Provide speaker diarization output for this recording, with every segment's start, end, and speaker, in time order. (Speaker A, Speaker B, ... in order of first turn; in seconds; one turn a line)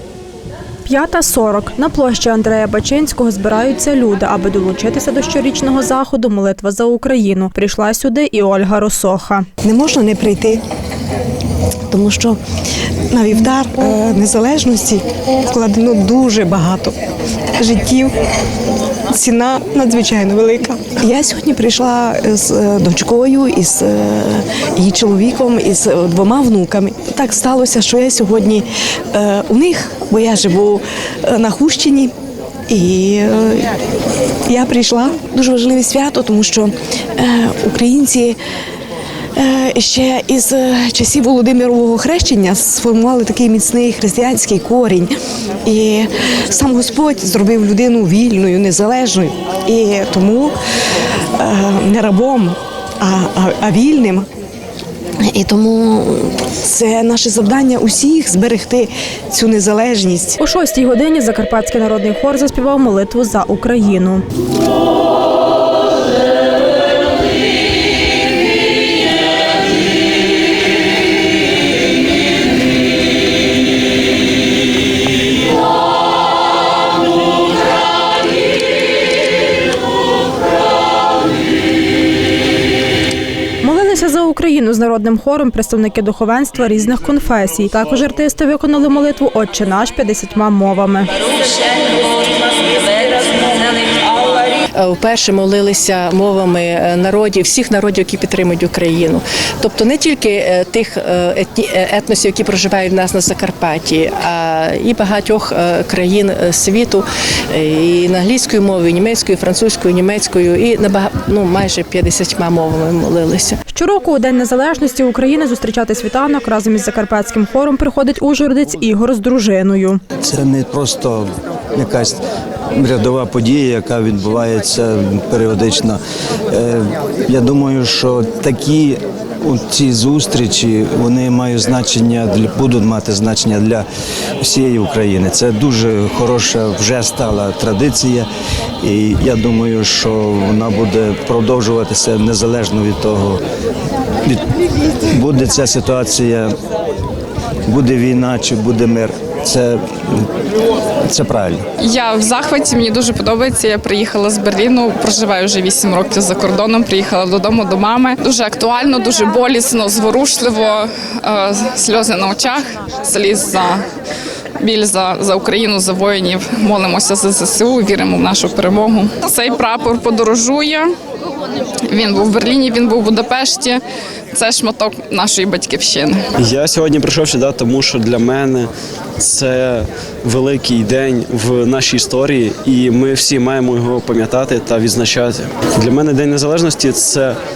Speaker A: 0.9-9.5
Speaker B: 9.6-10.6
Speaker B: 11.9-12.4
Speaker B: 13.1-17.0
Speaker B: 17.6-18.1
Speaker B: 19.1-32.1
Speaker B: 32.7-33.7
Speaker B: 34.5-38.4
Speaker B: 39.4-45.1
Speaker B: 45.6-50.6
Speaker B: 51.4-54.3
Speaker B: 55.2-60.4
Speaker A: 60.4-64.2
Speaker A: 83.6-91.1
Speaker C: 94.8-113.6
Speaker A: 113.7-120.0
Speaker D: 120.2-122.2
Speaker D: 122.7-133.9
Speaker D: 134.4-138.3
Speaker D: 138.8-143.4
Speaker D: 145.1-146.5
Speaker D: 147.7-150.3
Speaker D: 151.1-151.6
Speaker E: 151.8-163.8
Speaker E: 164.6-170.9
Speaker E: 171.9-176.2
Speaker F: 176.4-187.4